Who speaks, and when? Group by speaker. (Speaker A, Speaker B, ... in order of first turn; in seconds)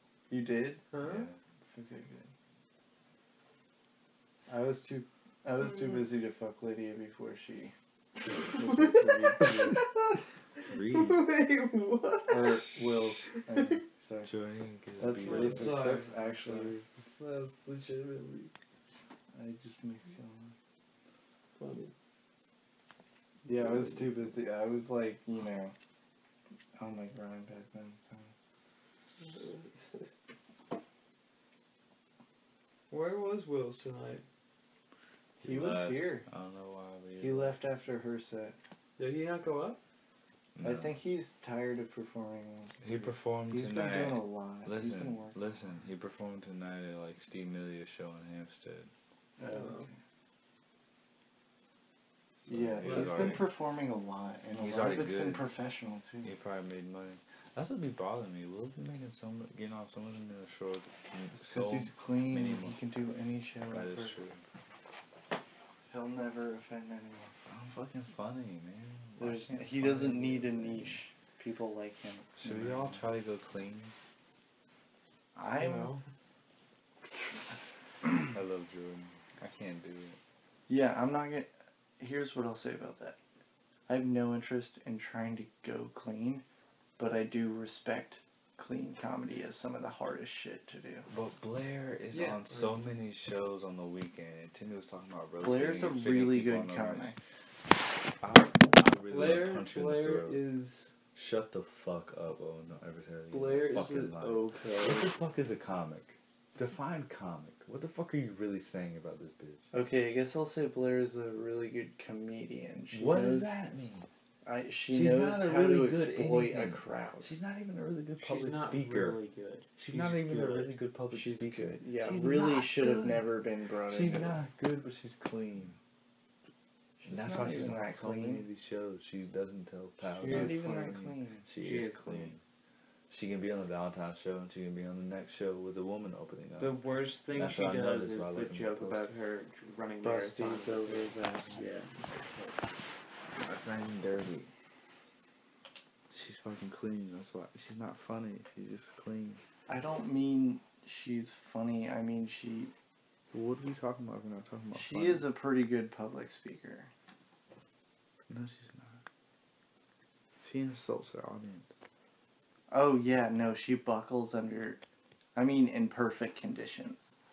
Speaker A: 0.3-0.9, 1.7-2.3, 4.5-7.7, 8.4-9.8, 12.3-14.3, 15.0-16.9, 19.3-20.5, 23.4-25.7, 26.8-28.3, 35.4-36.2, 37.2-38.6, 40.6-45.4, 49.4-50.0, 52.4-56.3, 61.4-64.2, 65.9-67.3, 69.2-73.0, 75.3-75.9, 80.7-83.2, 83.9-86.4, 87.0-91.1, 95.4-97.2, 109.7-113.5, 114.4-117.3, 121.1-124.4, 127.0-128.4, 130.2-131.4, 140.0-141.9, 149.7-152.7, 154.7-156.9, 162.7-164.8, 165.3-167.1
Speaker B: 0.9-1.3, 8.5-10.1, 10.8-12.7, 15.2-18.5, 21.6-21.9, 29.2-30.0, 32.9-34.2, 39.0-39.8, 49.4-49.9, 52.8-53.5, 75.6-76.0, 92.1-92.8, 99.1-100.9, 103.3-105.1, 118.2-120.8, 130.1-130.9, 131.6-132.3, 136.6-141.1
Speaker C: 1.0-1.4, 10.7-11.3, 14.2-15.8, 35.4-37.6, 40.5-40.9, 42.8-48.9, 52.5-53.4, 54.6-55.5, 56.2-62.8, 63.7-64.4, 67.5-71.0, 72.4-73.9, 78.2-80.2, 91.1-97.1, 98.2-100.4, 101.1-109.7, 112.9-114.1, 114.9-119.2, 119.8-123.1, 123.9-125.8, 127.0-132.4, 133.1-136.8, 137.3-139.1, 143.4-144.5, 146.1-149.4, 153.3-155.3, 158.3-159.0, 160.4-161.7